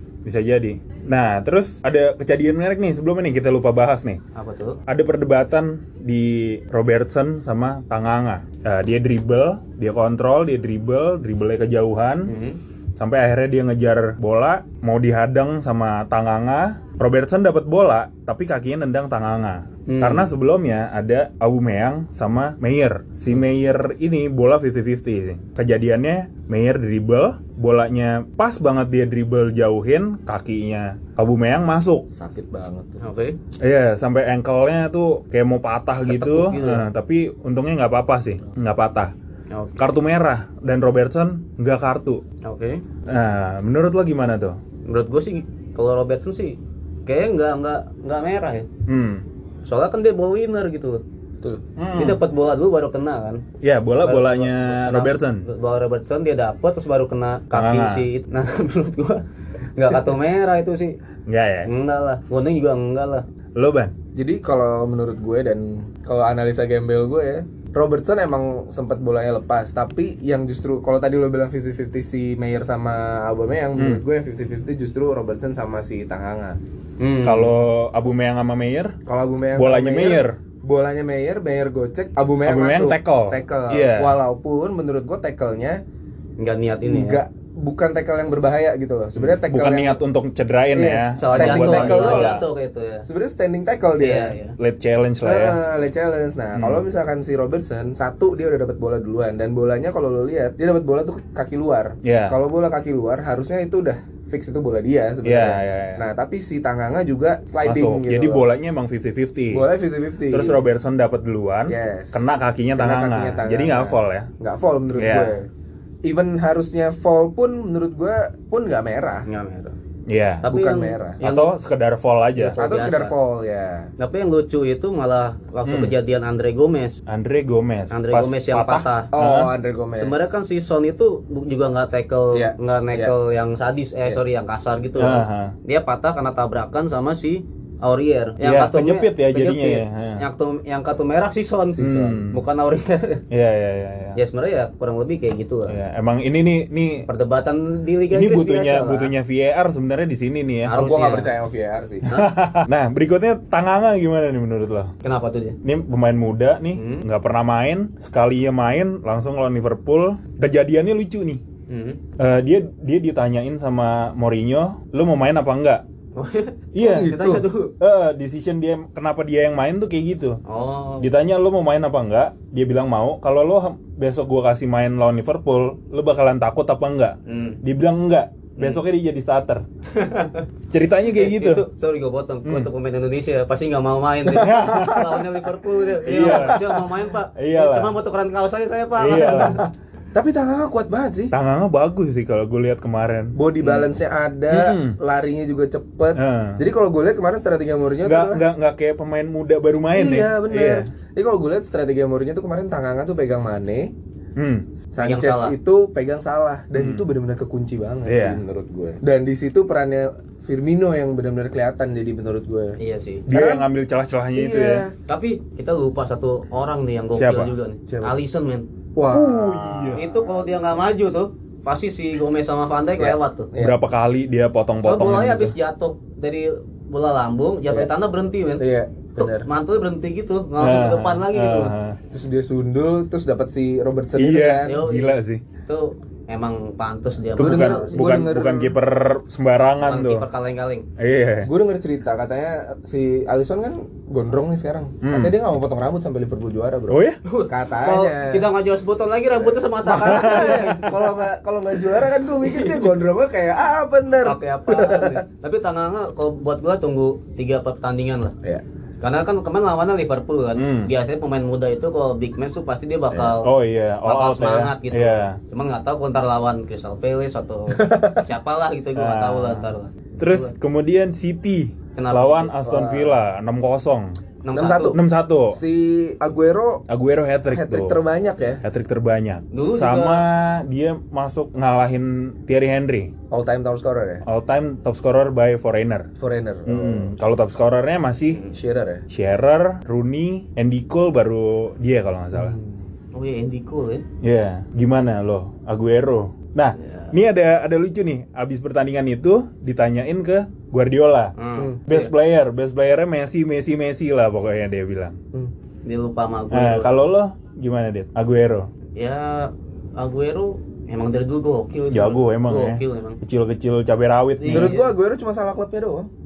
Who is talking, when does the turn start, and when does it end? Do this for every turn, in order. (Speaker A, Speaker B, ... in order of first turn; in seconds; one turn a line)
Speaker A: 0.2-4.2
Speaker B: 4.3-4.8
Speaker A: 4.9-12.3
Speaker B: 12.2-12.6
Speaker A: 13.0-32.0
Speaker B: 19.9-20.3
Speaker C: 32.1-33.0
Speaker B: 33.0-33.4
Speaker A: 33.6-39.1
Speaker B: 36.0-36.9
Speaker B: 39.5-39.9
Speaker A: 39.8-42.2
Speaker B: 42.4-42.8
Speaker A: 43.1-44.6
Speaker B: 44.9-48.7
Speaker A: 48.9-49.2
Speaker B: 49.6-51.0
Speaker A: 51.8-52.2
Speaker B: 52.0-53.4
Speaker A: 53.6-55.5
Speaker B: 54.0-59.2
Speaker A: 57.5-58.1
Speaker B: 59.8-61.0
Speaker A: 61.3-61.7
Speaker B: 61.6-63.2
Speaker A: 63.6-63.9
Speaker C: 64.1-76.6
Speaker A: 73.8-74.0
Speaker B: 77.0-77.5
Speaker A: 77.2-79.0
Speaker C: 79.1-85.8
Speaker A: 79.5-80.4
Speaker A: 82.5-84.2
Speaker B: 86.4-87.2
Speaker C: 86.8-90.0
Speaker A: 89.2-92.5
Speaker C: 90.7-92.4
Speaker B: 91.2-93.1
Speaker C: 93.0-94.3
Speaker B: 94.0-94.6
Speaker A: 94.6-95.6
Speaker C: 95.2-108.5
Speaker A: 96.5-96.8
Speaker A: 102.0-102.4
Speaker A: 105.2-106.1
Speaker A: 107.6-109.7
Speaker C: 109.5-110.6
Speaker A: 110.3-114.3
Speaker C: 111.7-115.5
Speaker A: 114.9-115.4
Speaker C: 116.0-119.2
Speaker B: 119.2-119.8
Speaker A: 120.1-120.5
Speaker B: 120.4-121.5
Speaker C: 120.5-121.2
Speaker A: 121.2-122.6
Speaker B: 122.4-123.1
Speaker C: 122.6-123.9
Speaker B: 124.0-127.0
Speaker A: 125.7-126.0
Speaker A: 127.1-129.5
Speaker B: 127.9-129.1
Speaker C: 129.1-130.3
Speaker B: 130.0-143.2
Speaker C: 132.3-133.1
Speaker A: 135.0-135.5
Speaker A: 138.4-140.2
Speaker C: 141.8-142.2
Speaker A: 141.8-142.4
Speaker A: 143.3-144.2
Speaker B: 144.1-145.8
Speaker A: 145.7-147.1
Speaker B: 147.1-149.1
Speaker A: 148.1-150.8
Speaker B: 150.7-151.3
Speaker C: 150.7-152.1
Speaker B: 152.1-152.3
Speaker A: 152.1-154.9
Speaker B: 155.0-155.6
Speaker A: 155.6-161.4
Speaker B: 156.8-157.1
Speaker B: 161.7-162.0
Speaker A: 162.2-165.8
Speaker B: 166.1-167.7
Speaker A: 166.7-167.2
Speaker C: 166.8-167.5
Speaker A: 167.8-170.4
Speaker B: 170.5-171.1
Speaker A: 171.0-179.6
Speaker B: 177.2-177.6
Speaker B: 178.6-178.8
Speaker B: 179.9-180.5
Speaker A: 180.7-181.7
Speaker B: 181.1-189.6
Speaker A: 182.4-182.7
Speaker C: 184.3-185.2
Speaker A: 184.3-185.1
Speaker A: 186.1-186.8
Speaker C: 186.1-186.8
Speaker A: 187.3-187.9
Speaker A: 189.0-189.6
Speaker C: 189.1-191.3
Speaker A: 191.3-193.4
Speaker C: 193.4-198.4
Speaker B: 193.6-193.9
Speaker A: 194.5-195.0
Speaker A: 196.1-196.6
Speaker A: 198.0-200.9
Speaker C: 199.9-203.9
Speaker A: 204.4-204.7
Speaker C: 204.9-212.8
Speaker B: 205.0-205.5
Speaker A: 206.8-207.1
Speaker A: 208.1-208.4
Speaker B: 212.8-213.2
Speaker A: 213.3-214.8
Speaker C: 213.3-213.7
Speaker C: 214.3-214.9
Speaker B: 215.1-218.7
Speaker A: 217.1-217.5
Speaker C: 217.9-218.1
Speaker C: 218.9-220.9
Speaker A: 219.1-220.0
Speaker B: 219.9-223.5
Speaker C: 223.0-223.8
Speaker A: 223.6-225.5
Speaker B: 224.8-231.8
Speaker C: 228.6-229.5
Speaker A: 230.6-232.0
Speaker C: 232.1-234.8
Speaker A: 234.2-235.4
Speaker B: 234.6-238.1
Speaker C: 237.4-238.8
Speaker A: 237.4-240.3
Speaker B: 239.8-240.9
Speaker A: 241.0-241.5
Speaker C: 241.4-248.5
Speaker A: 245.0-245.3
Speaker A: 246.9-247.2
Speaker B: 247.2-250.9
Speaker C: 249.4-255.2
Speaker A: 250.0-250.9
Speaker B: 252.4-252.9
Speaker B: 254.2-258.4
Speaker B: 259.0-263.5
Speaker A: 260.6-260.9
Speaker A: 263.4-265.4
Speaker B: 264.0-270.5
Speaker C: 267.7-268.2
Speaker A: 268.9-274.2
Speaker B: 271.9-272.6
Speaker C: 272.6-273.2
Speaker B: 274.4-275.0
Speaker C: 274.5-275.0
Speaker A: 274.9-275.6
Speaker C: 275.5-276.9
Speaker A: 276.9-278.0
Speaker C: 277.5-278.6
Speaker A: 278.6-283.1
Speaker B: 279.5-280.2
Speaker C: 283.3-284.2
Speaker A: 284.2-286.1
Speaker C: 286.2-287.1
Speaker A: 286.6-288.4
Speaker C: 288.5-289.1
Speaker A: 289.1-292.6
Speaker C: 292.3-292.8
Speaker B: 293.1-294.0
Speaker A: 294.2-301.3
Speaker B: 296.8-297.1
Speaker B: 301.4-302.1
Speaker C: 301.6-301.9
Speaker A: 301.9-305.2
Speaker B: 305.9-307.0
Speaker A: 306.5-308.7
Speaker B: 309.0-313.2
Speaker A: 311.9-314.8
Speaker B: 314.4-314.9
Speaker C: 314.5-316.1